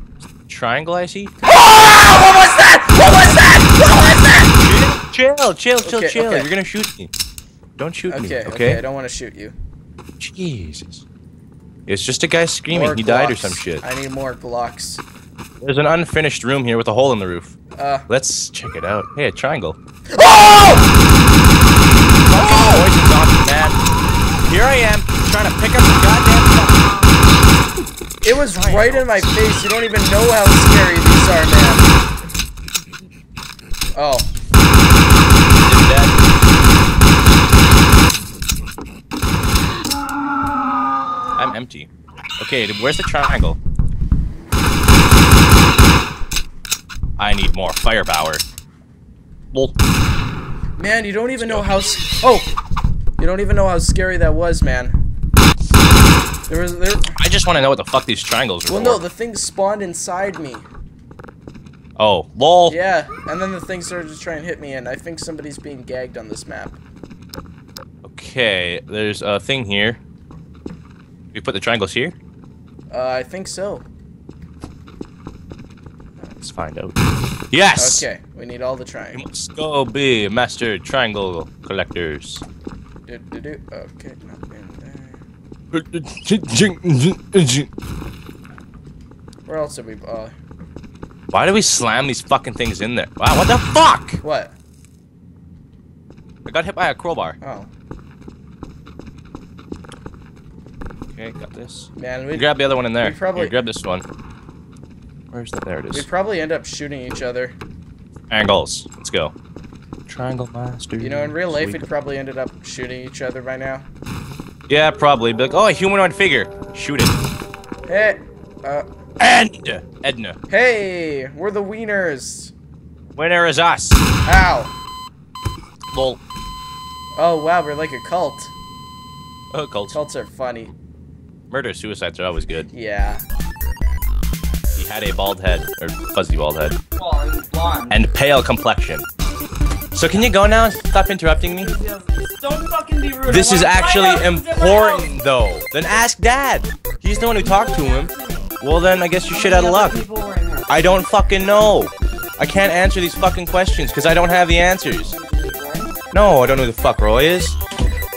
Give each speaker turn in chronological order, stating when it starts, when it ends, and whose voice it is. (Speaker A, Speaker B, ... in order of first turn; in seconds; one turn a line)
Speaker A: 0.5-1.3
Speaker B: 1.4-4.6
Speaker A: 4.6-7.1
Speaker B: 5.8-6.5
Speaker A: 7.8-8.8
Speaker B: 8.1-9.6
Speaker A: 10.2-11.0
Speaker A: 11.9-13.8
Speaker B: 12.7-15.0
Speaker A: 15.6-17.6
Speaker B: 17.8-18.1
Speaker A: 18.1-19.8
Speaker B: 20.1-20.9
Speaker A: 22.3-23.8
Speaker B: 22.3-22.9
Speaker A: 24.4-26.9
Speaker A: 28.2-29.3
Speaker B: 28.2-31.9
Speaker B: 34.0-34.3
Speaker A: 35.6-36.2
Speaker A: 41.4-43.6
Speaker A: 47.2-48.4
Speaker B: 50.8-52.5
Speaker A: 51.4-51.7
Speaker B: 53.2-55.0
Speaker B: 56.5-57.2
Speaker A: 57.2-59.0
Speaker B: 58.7-60.7
Speaker A: 62.0-62.8
Speaker B: 62.7-66.8
Speaker A: 68.0-70.0
Speaker A: 71.3-72.2
Speaker B: 72.9-73.9
Speaker A: 76.4-77.0
Speaker A: 77.5-78.1
Speaker B: 77.8-79.3
Speaker A: 79.1-82.4
Speaker B: 83.1-85.2
Speaker A: 85.7-87.7
Speaker B: 89.5-90.3
Speaker A: 91.3-94.2
Speaker B: 94.2-94.5
Speaker A: 96.5-97.4
Speaker B: 97.4-97.7
Speaker A: 101.1-104.0
Speaker B: 102.0-103.5
Speaker A: 105.3-106.1
Speaker B: 105.9-107.5
Speaker A: 108.3-109.3
Speaker A: 110.1-111.8
Speaker B: 111.0-113.8
Speaker A: 114.7-117.2
Speaker B: 117.9-118.9
Speaker A: 119.2-120.4
Speaker B: 120.5-122.5
Speaker A: 123.2-124.1
Speaker B: 124.3-124.7
Speaker A: 125.9-126.2
Speaker B: 127.2-128.5
Speaker A: 129.5-130.0
Speaker B: 129.9-130.7
Speaker A: 131.5-132.7
Speaker B: 132.7-133.2
Speaker A: 134.7-136.8
Speaker C: 137.0-137.9
Speaker A: 137.9-139.1
Speaker A: 139.9-141.8
Speaker C: 141.6-145.1
Speaker A: 143.2-150.1
Speaker C: 148.1-148.5
Speaker C: 149.4-150.7
Speaker A: 150.7-155.2
Speaker C: 155.1-155.9
Speaker A: 156.1-157.6